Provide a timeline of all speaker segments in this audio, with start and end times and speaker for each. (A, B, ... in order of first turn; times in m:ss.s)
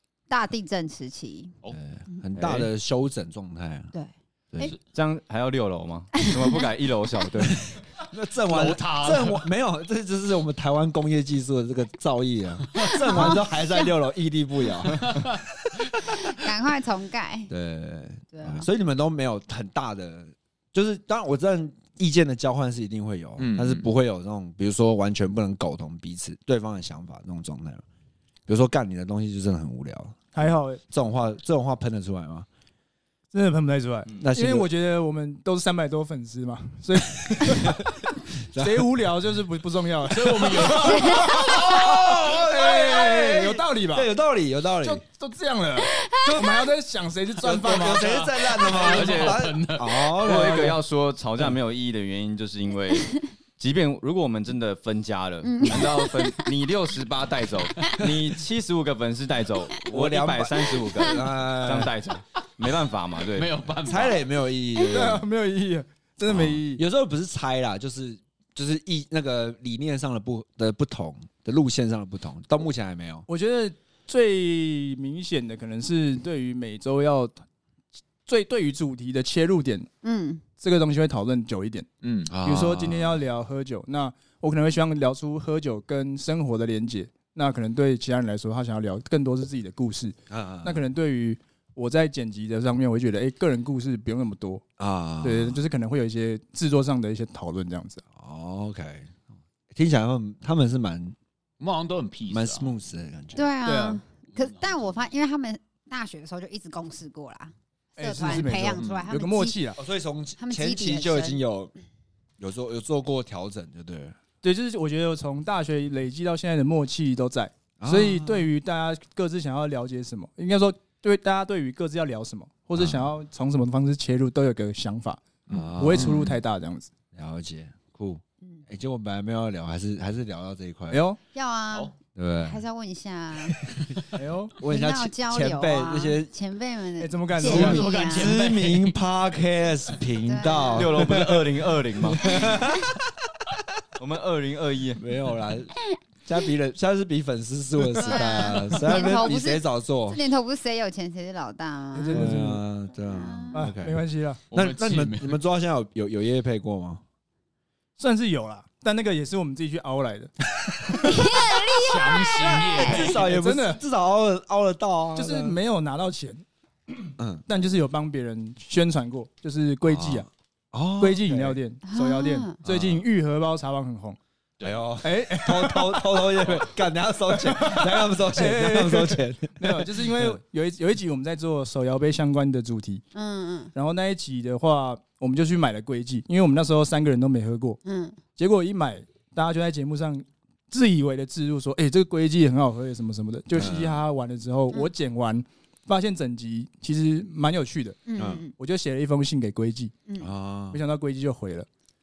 0:00.3-0:01.5 A
0:01.7-0:03.9 B
0:02.4-0:02.7 C
0:03.9-0:04.8 A
0:04.8-0:07.7 C
0:06.2-0:06.6 A
0:08.1-0:15.4 B
0:08.5-0:09.5 D
0:12.8-0:13.9 A
0:15.0-0:16.0 D
0:16.0-0:17.5 A
0:17.5-0:27.8 B
0:18.3-0:18.7 A
0:23.4-0:23.9 D
0:28.5-0:30.2 B
0:30.3-0:30.8 E
0:30.9-0:32.5 B
0:33.3-0:37.8 E
0:34.2-0:34.7 B
0:37.2-0:37.8 B
0:38.5-0:38.9 B
0:38.6-0:44.1 E
0:40.1-0:41.5 D
0:40.9-0:41.3 A
0:41.0-0:45.0 B
0:44.8-0:48.2 E
0:46.1-0:46.4 A
0:46.2-0:46.6 B
0:47.4-0:50.8 B
0:48.0-0:50.1 D
0:49.0-0:49.4 C
0:50.2-1:03.6 C
0:50.3-0:50.7 E
0:55.4-0:56.5 A
0:58.0-0:58.2 B
0:59.9-1:02.0 B
1:03.3-1:04.2 D
1:03.8-1:05.2 B
1:04.9-1:06.8 E
1:06.3-1:13.3 B
1:13.3-1:17.4 E
1:18.3-1:19.9 E
1:20.0-1:20.4 A
1:20.6-1:21.9 E
1:22.0-1:22.3 D
1:22.3-1:23.2 B
1:22.4-1:34.6 E
1:30.3-1:30.8 B
1:34.8-1:35.6 B
1:35.2-1:38.0 E
1:38.2-1:39.1 B
1:39.7-1:41.2 B
1:41.6-1:42.7 D
1:42.3-1:43.5 B
1:43.4-1:49.6 A
1:43.6-1:44.0 E
1:44.4-1:44.9 D
1:48.0-1:49.8 E
1:48.8-1:49.1 D
1:49.8-1:51.7 B
1:50.4-1:51.4 A
1:52.4-1:54.2 B
1:54.4-2:06.9 E
1:57.8-1:58.5 B
2:02.8-2:03.1 B
2:05.5-2:06.4 B
2:07.1-2:11.0 B
2:10.9-2:11.2 E
2:11.3-2:13.6 A
2:12.2-2:12.6 B
2:14.1-2:14.5 E
2:14.6-2:16.3 B
2:14.6-2:18.3 A
2:17.0-2:17.9 E
2:17.4-2:19.0 D
2:17.5-2:23.1 B
2:20.2-2:21.0 A
2:20.8-2:22.4 C
2:22.2-2:22.8 A
2:24.0-2:25.0 C
2:25.0-2:25.8 B
2:26.3-2:30.2 B
2:28.0-2:32.3 A
2:31.9-2:32.6 E
2:32.1-2:34.0 B
2:33.0-2:33.6 A
2:33.5-2:34.4 E
2:34.5-2:35.4 D
2:34.5-2:37.0 B
2:38.0-2:41.2 E
2:41.0-2:43.1 A
2:41.7-2:43.2 D
2:42.4-2:45.6 B
2:43.2-2:43.8 E
2:45.2-2:50.3 E
2:47.2-2:47.4 B
2:49.8-2:51.6 B
2:51.0-2:54.2 E
2:51.9-2:52.6 A
2:52.6-2:53.0 B
2:54.6-3:00.4 B
2:55.0-2:56.4 E
2:57.3-3:03.0 E
3:03.1-3:03.7 A
3:03.7-3:07.8 E
3:07.8-3:08.2 A
3:08.4-3:18.0 E
3:13.5-3:14.0 B
3:18.1-3:18.5 A
3:18.2-3:18.4 B
3:18.6-3:19.9 E
3:20.2-3:20.8 B
3:20.7-3:21.7 E